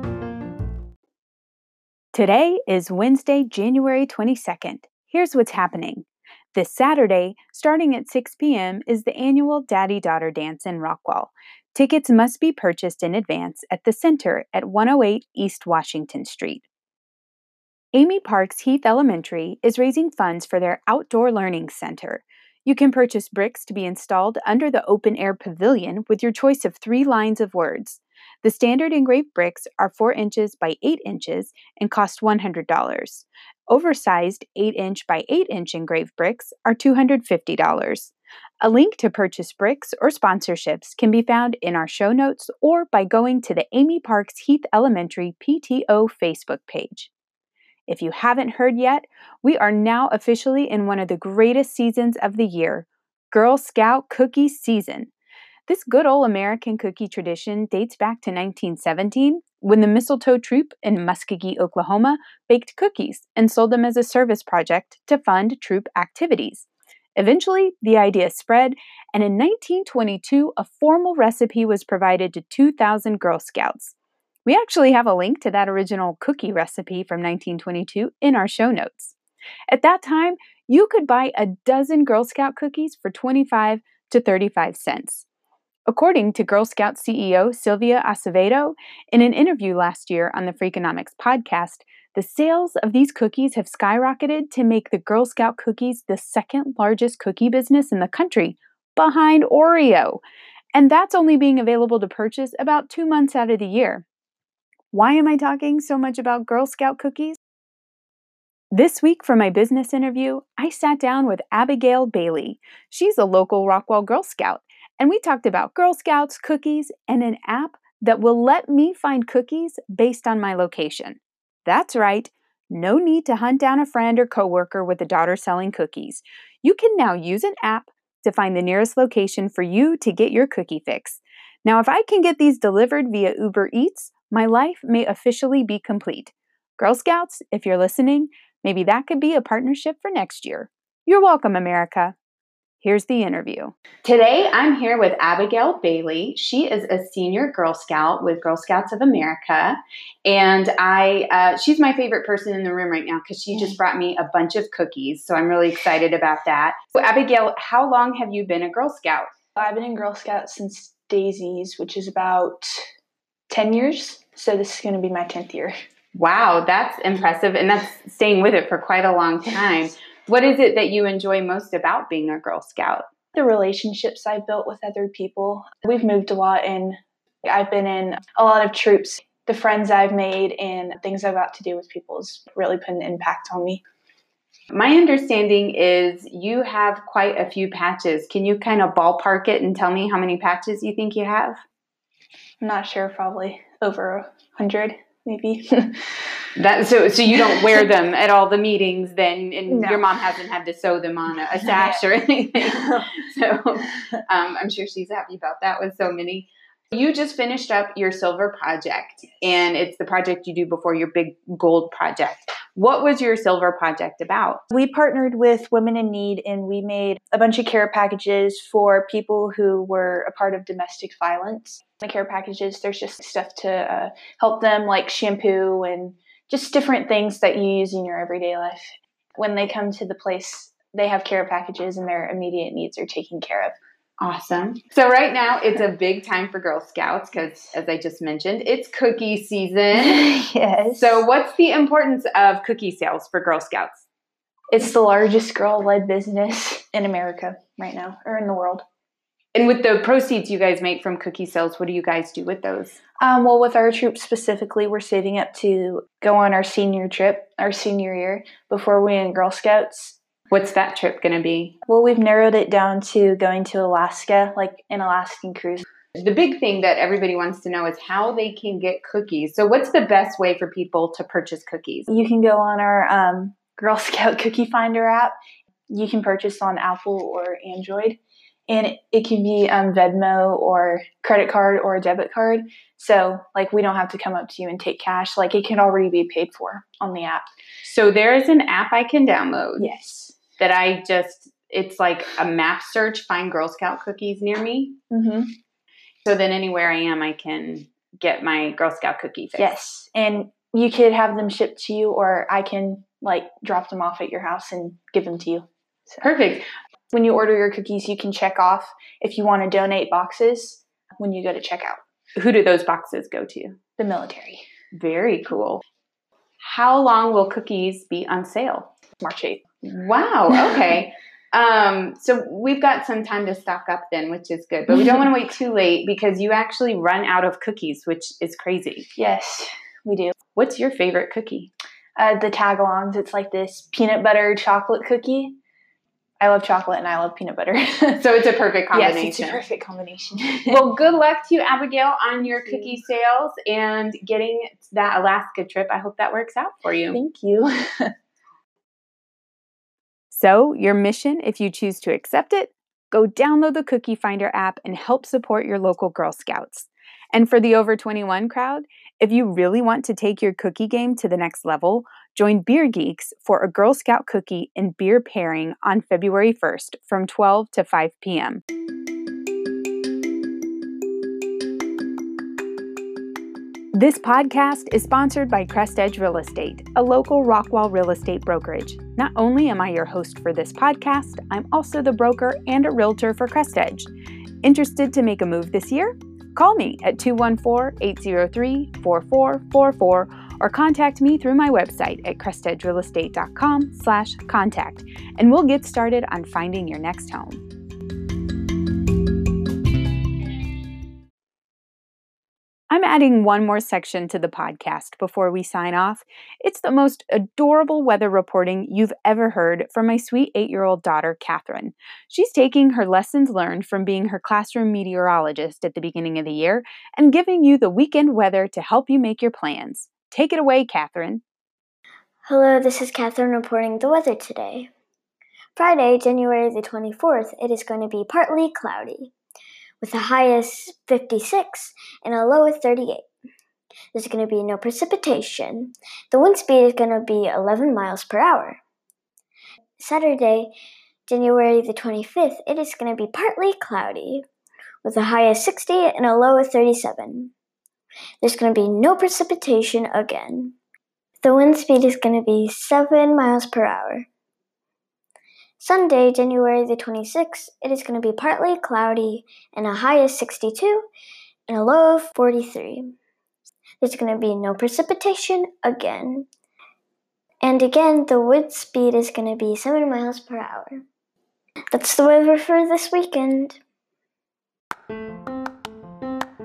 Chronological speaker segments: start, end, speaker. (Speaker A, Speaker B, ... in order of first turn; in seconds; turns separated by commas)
Speaker A: 2.1-16.6, Speaker A: 17.9-47.1, Speaker A: 47.9-55.1, Speaker A: 55.7-74.0, Speaker A: 74.5-79.2, Speaker A: 79.7-85.2, Speaker A: 85.9-100.2, Speaker A: 100.8-104.0, Speaker A: 104.9-107.4, Speaker A: 108.7-142.2, Speaker A: 142.8-159.3, Speaker B: 159.6-162.9, Speaker B: 163.5-165.7, Speaker A: 166.2-173.1, Speaker B: 173.3-183.8, Speaker A: 184.7-191.6, Speaker B: 192.6-196.1, Speaker A: 196.6-214.6, Speaker B: 199.7-200.1, Speaker B: 214.7-233.8, Speaker A: 234.2-240.3, Speaker B: 239.9-241.2, Speaker A: 240.9-244.1, Speaker B: 244.7-248.8, Speaker A: 249.6-253.0, Speaker B: 253.2-260.2, Speaker A: 260.5-261.8, Speaker B: 261.9-265.8, Speaker A: 266.2-272.1, Speaker B: 272.1-275.4, Speaker B: 275.9-287.4, Speaker A: 287.8-289.9, Speaker B: 289.8-290.4, Speaker A: 290.6-295.0, Speaker B: 295.1-295.5, Speaker A: 296.2-299.7, Speaker B: 299.6-306.2, Speaker A: 306.2-306.7, Speaker B: 307.1-312.0, Speaker A: 312.4-313.8, Speaker B: 314.0-314.6, Speaker A: 314.9-315.8, Speaker A: 316.6-318.9, Speaker B: 319.2-319.6, Speaker A: 319.8-329.1, Speaker B: 329.2-330.4, Speaker A: 330.6-331.7, Speaker B: 332.2-335.6, Speaker B: 336.4-338.3, Speaker A: 338.2-339.6, Speaker B: 338.9-340.9, Speaker A: 340.7-347.2, Speaker B: 342.4-342.9, Speaker B: 347.1-348.1, Speaker A: 350.3-368.6, Speaker A: 373.9-384.1, Speaker A: 384.6-397.6, Speaker A: 402.9-421.4, Speaker C: 422.4-424.9, Speaker C: 425.8-429.3, Speaker C: 430.0-433.2, Speaker C: 434.1-438.8, Speaker C: 440.0-440.7, Speaker C: 441.3-444.5, Speaker C: 445.0-447.5, Speaker C: 448.4-450.8, Speaker C: 451.4-454.3, Speaker C: 455.8-461.1, Speaker C: 461.7-463.1, Speaker C: 464.0-466.5, Speaker C: 467.6-471.0, Speaker C: 471.9-473.8